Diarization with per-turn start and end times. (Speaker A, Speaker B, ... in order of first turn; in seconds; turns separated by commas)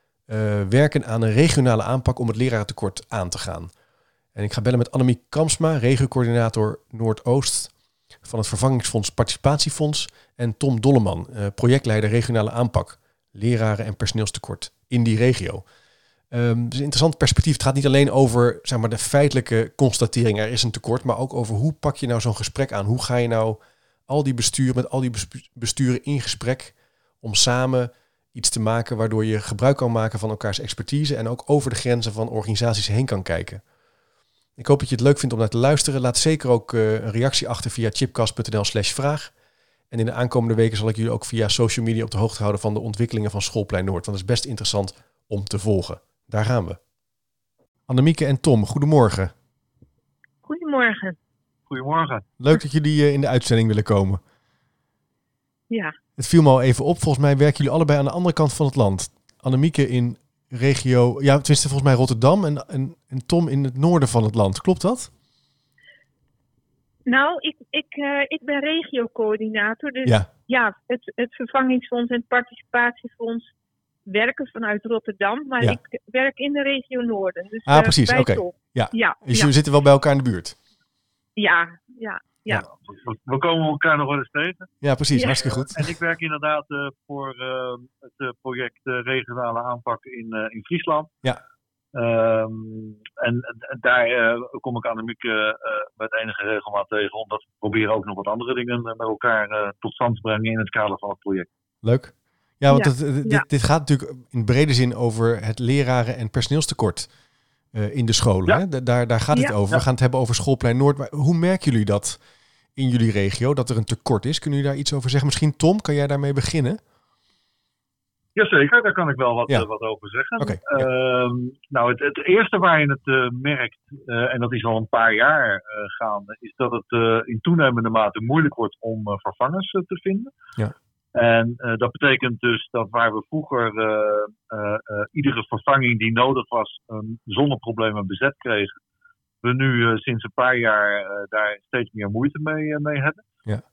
Speaker A: 0.3-3.7, Speaker A: 4.3-15.6, Speaker A: 16.3-33.6, Speaker A: 34.6-39.3, Speaker A: 39.9-46.8, Speaker A: 47.9-49.3, Speaker B: 50.4-51.2, Speaker C: 51.7-52.2, Speaker A: 52.4-54.2, Speaker B: 55.7-55.9, Speaker A: 56.2-65.1, Speaker B: 67.1-73.5, Speaker B: 74.1-79.5, Speaker A: 77.7-80.6, Speaker B: 81.4-82.7, Speaker C: 82.8-84.7, Speaker A: 84.8-85.9, Speaker B: 85.1-85.4, Speaker C: 85.4-91.1, Speaker C: 91.9-101.5, Speaker A: 101.8-107.1, Speaker B: 102.7-103.5, Speaker A: 107.7-112.2, Speaker A: 112.8-116.8, Speaker C: 118.3-130.3, Speaker A: 120.4-120.8, Speaker C: 131.1-138.7, Speaker C: 139.4-143.2